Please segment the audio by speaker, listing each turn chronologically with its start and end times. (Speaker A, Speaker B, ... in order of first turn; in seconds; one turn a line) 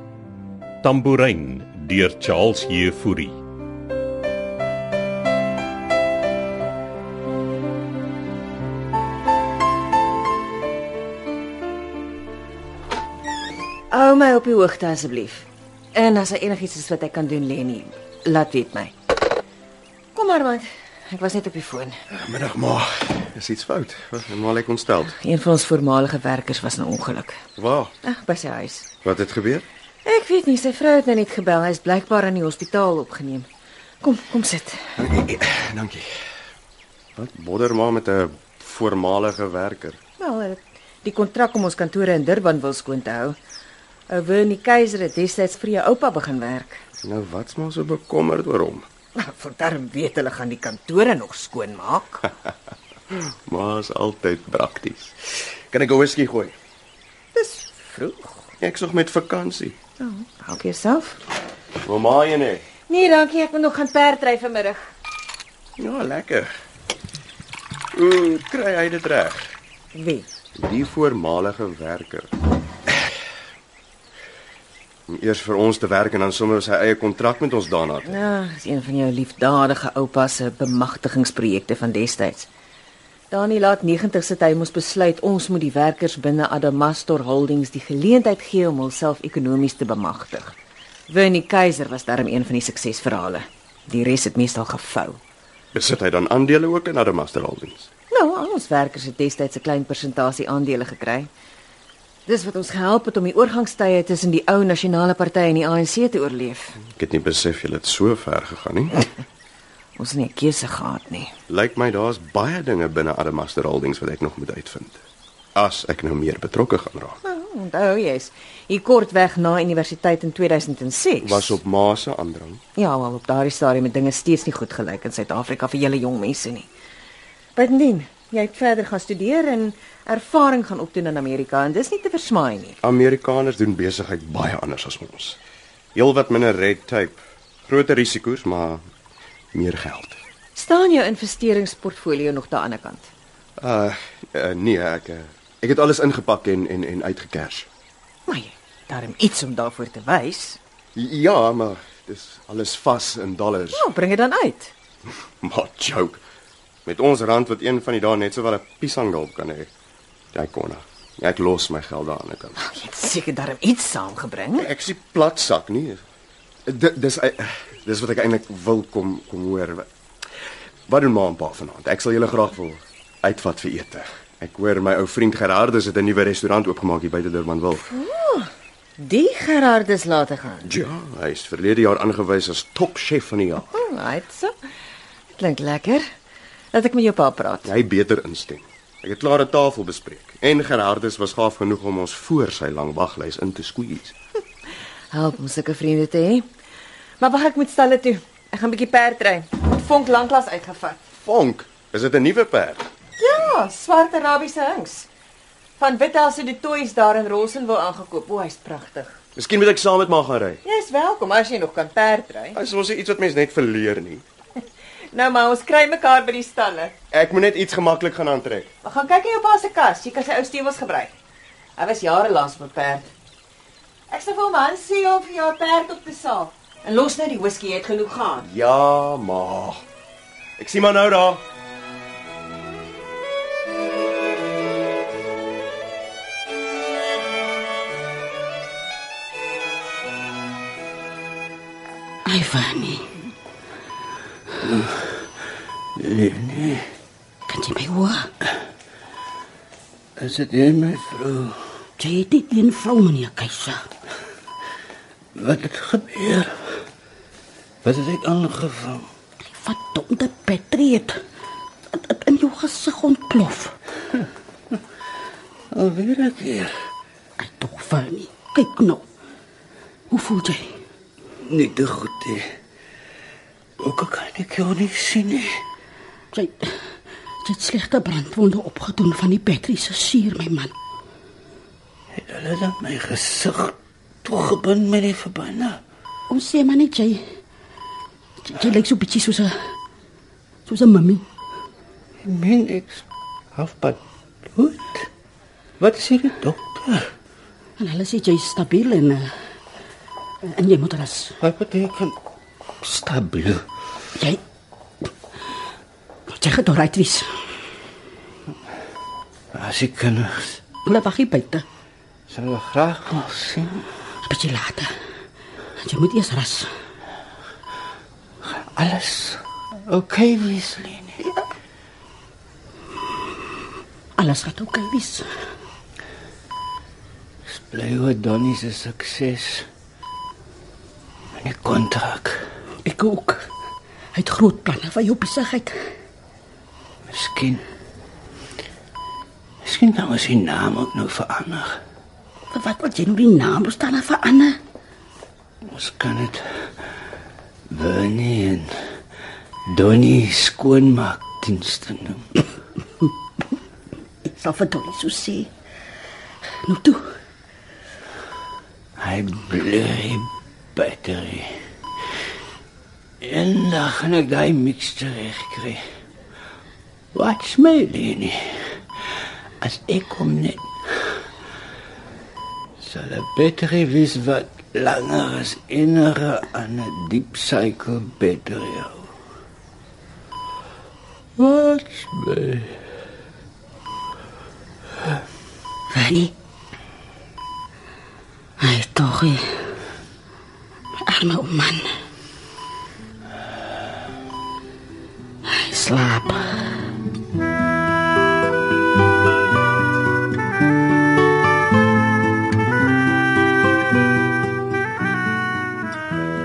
Speaker A: 0.8-3.4
Speaker B: 13.9-18.9
Speaker B: 20.1-21.9
Speaker C: 22.1-25.1
Speaker B: 25.1-27.4
Speaker C: 27.6-27.9
Speaker B: 28.0-28.9
Speaker C: 29.0-29.6
Speaker B: 30.0-33.5
Speaker B: 34.0-34.8
Speaker C: 35.0-36.1
Speaker C: 37.1-40.0
Speaker B: 40.2-43.4
Speaker B: 44.1-46.8
Speaker C: 47.0-48.9
Speaker B: 49.1-52.3
Speaker C: 53.1-56.5
Speaker B: 57.3-58.4
Speaker C: 58.6-59.8
Speaker B: 60.0-61.2
Speaker C: 61.8-62.6
Speaker B: 62.9-64.8
Speaker C: 65.8-66.5
Speaker C: 67.9-69.5
Speaker B: 69.9-70.3
Speaker C: 70.5-72.3
Speaker C: 75.1-78.3
Speaker B: 78.0-82.5
Speaker B: 83.3-90.5
Speaker B: 91.1-95.2
Speaker C: 95.7-97.9
Speaker B: 98.1-101.3
Speaker B: 102.2-106.8
Speaker C: 106.9-109.0
Speaker B: 110.0-111.3
Speaker C: 111.5-115.0
Speaker C: 115.5-117.2
Speaker B: 117.2-121.6
Speaker C: 121.2-122.6
Speaker B: 122.8-126.7
Speaker B: 127.5-132.8
Speaker C: 132.8-135.4
Speaker C: 135.9-138.8
Speaker C: 139.5-140.2
Speaker B: 140.5-143.1
Speaker C: 143.6-147.7
Speaker B: 148.3-150.6
Speaker C: 150.9-153.8
Speaker B: 153.7-154.7
Speaker C: 155.4-156.2
Speaker C: 156.8-159.7
Speaker C: 160.3-162.6
Speaker B: 162.6-164.7
Speaker C: 164.6-166.0
Speaker C: 166.7-169.8
Speaker C: 170.9-177.9
Speaker B: 177.9-180.7
Speaker C: 180.7-183.8
Speaker B: 183.7-184.5
Speaker B: 185.3-186.0
Speaker B: 186.7-187.7
Speaker C: 187.6-194.1
Speaker B: 195.1-196.4
Speaker B: 197.2-201.0
Speaker C: 201.2-202.9
Speaker B: 203.2-205.1
Speaker B: 205.8-209.1
Speaker C: 209.3-210.6
Speaker B: 210.6-212.6
Speaker C: 212.5-214.2
Speaker B: 215.1-216.9
Speaker C: 217.1-218.7
Speaker B: 218.8-221.1
Speaker B: 221.8-223.1
Speaker B: 224.1-228.5
Speaker C: 228.4-229.8
Speaker C: 230.6-231.4
Speaker D: 242.2-243.2
Speaker E: 244.6-245.2
Speaker E: 246.0-246.9
Speaker D: 247.5-248.3
Speaker E: 250.2-251.6
Speaker D: 252.0-253.8
Speaker E: 255.3-256.5
Speaker E: 257.8-259.1
Speaker D: 259.4-261.1
Speaker D: 261.9-263.7
Speaker E: 265.7-266.7
Speaker D: 267.4-269.0
Speaker D: 270.1-270.7
Speaker E: 271.4-272.5
Speaker E: 273.8-275.6
Speaker D: 276.3-276.8
Speaker D: 277.4-280.7
Speaker E: 282.1-285.8
Speaker D: 286.3-287.2
Speaker D: 288.4-289.5
Speaker D: 290.7-291.2
Speaker E: 292.2-293.0
Speaker E: 293.5-294.0
Speaker E: 294.5-295.1
Speaker E: 295.8-297.1
Speaker D: 297.8-299.3
Speaker D: 300.4-301.4
Speaker E: 301.4-302.1
Speaker E: 302.8-303.6
Speaker D: 306.3-307.3
Speaker E: 309.5-310.6
Speaker D: 310.8-311.6
Speaker E: 312.3-313.9
Speaker D: 314.2-314.9
Speaker D: 315.8-316.7
Speaker E: 318.4-321.3
Speaker D: 324.2-325.2
Speaker E: 327.5-329.6
Speaker E: 331.4-332.4
Speaker D: 332.8-333.4
Speaker D: 334.1-335.8
Speaker E: 337.1-337.6
Speaker E: 339.6-341.8
Speaker D: 342.5-344.6
Speaker E: 345.7-346.4
Speaker E: 347.7-348.7
Speaker E: 349.7-352.3
Speaker D: 354.2-355.5
Speaker D: 356.6-357.0
Speaker E: 359.0-361.5
Speaker E: 363.2-365.8
Speaker E: 367.1-368.4
Speaker E: 369.6-371.1
Speaker E: 372.8-379.0
Speaker E: 381.4-382.8
Speaker D: 385.9-386.3
Speaker D: 388.6-389.4
Speaker D: 391.0-391.9
Speaker D: 395.5-396.6